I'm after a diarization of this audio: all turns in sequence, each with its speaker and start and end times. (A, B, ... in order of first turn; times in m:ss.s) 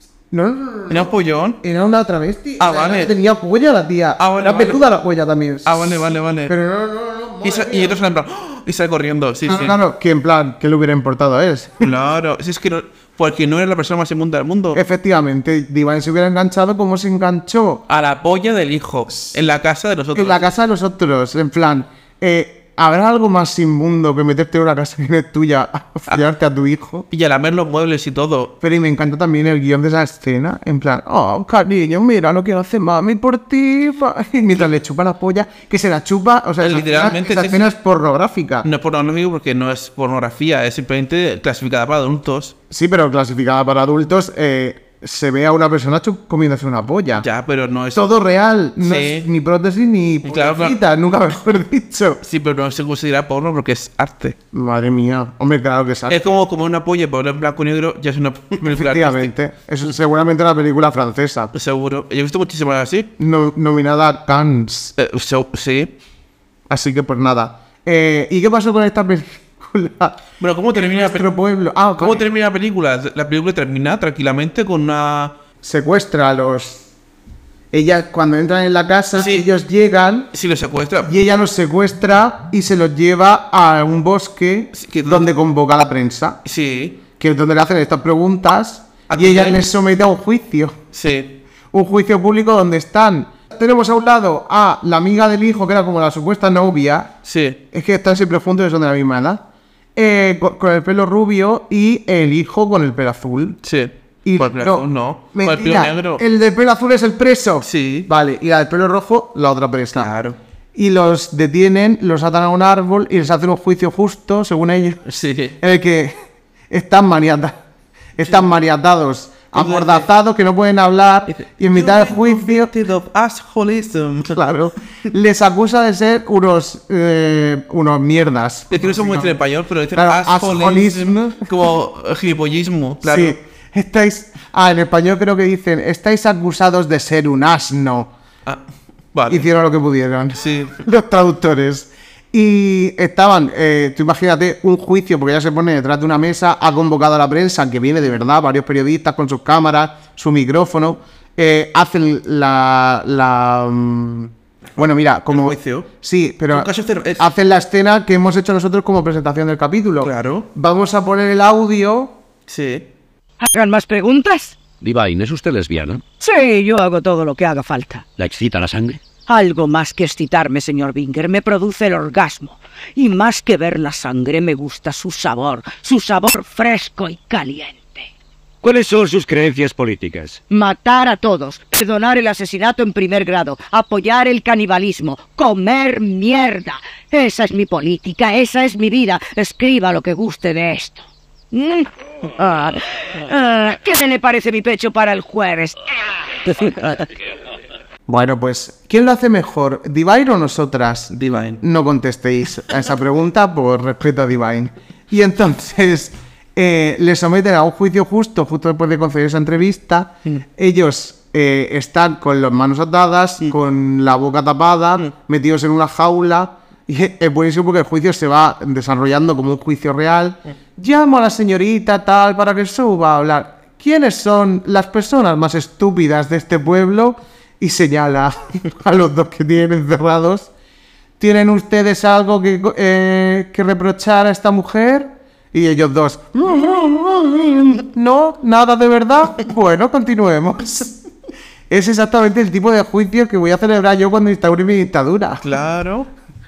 0:00.3-0:01.1 A
0:00.9-0:01.6 B
0:01.6-0:08.0 A
0:02.6-0:03.1 B
0:04.2-0:04.8 B
0:05.6-0:06.5 B
0:07.4-0:09.8 B
0:09.5-0:11.9 A
0:11.8-0:14.8 B
0:14.7-0:17.8 A
0:17.9-0:20.4 B
0:20.1-0:27.1 A
0:27.1-0:28.6 B
0:28.6-0:38.7 A
0:36.6-0:37.7 B
0:38.6-0:42.6 B
0:42.7-0:47.3 A
0:47.2-0:48.1 B
0:47.9-0:52.2 A
0:48.8-0:49.3 B
0:50.2-0:50.8 B
0:52.2-0:54.4 B
0:54.5-0:56.2 A
0:56.1-0:59.3 B
0:58.6-1:01.5 A
1:01.5-1:03.1 B
1:03.2-1:04.9 A
1:05.0-1:05.9 B
1:06.7-1:10.2 A
1:10.4-1:11.3 B
1:10.8-1:12.2 A
1:12.0-1:15.4 B
1:15.6-1:16.9 A
1:17.7-1:20.3 A
1:19.2-1:19.5 B
1:20.3-1:21.1 B
1:21.0-1:26.4 A
1:24.7-1:25.3 B
1:26.4-1:27.0 B
1:27.2-1:30.8 A
1:29.1-1:29.6 B
1:30.9-1:31.4 B
1:31.7-1:37.2 A
1:37.2-1:37.6 B
1:37.7-1:39.4 A
1:40.0-1:43.6 A
1:43.6-1:46.2 B
1:44.2-1:50.1 A
1:47.6-1:48.1 B
1:50.0-1:50.4 B
1:50.8-1:56.2 A
1:55.1-1:55.6 B
1:56.7-1:57.6 A
1:58.2-2:02.7 A
1:59.6-2:00.1 B
2:01.3-2:04.4 B
2:04.3-2:09.4 A
2:08.7-2:13.4 B
2:10.0-2:11.5 A
2:13.0-2:18.1 A
2:19.1-2:19.5 B
2:19.3-2:42.2 A
2:20.4-2:20.8 B
2:35.3-2:35.9 B
2:36.5-2:37.2 B
2:40.0-2:40.5 B
2:42.5-2:42.9 B
2:43.4-2:44.6 C
2:44.8-2:46.0 D
2:46.2-2:48.1 C
2:48.2-2:49.0 D
2:49.3-2:58.1 C
2:58.6-3:00.4 D
3:00.5-3:15.8 C
3:16.4-3:17.1 C
3:18.1-3:50.5 A
3:21.1-3:21.6 B
3:51.2-4:01.0 A
4:01.7-4:05.4 A
4:05.4-4:06.1 B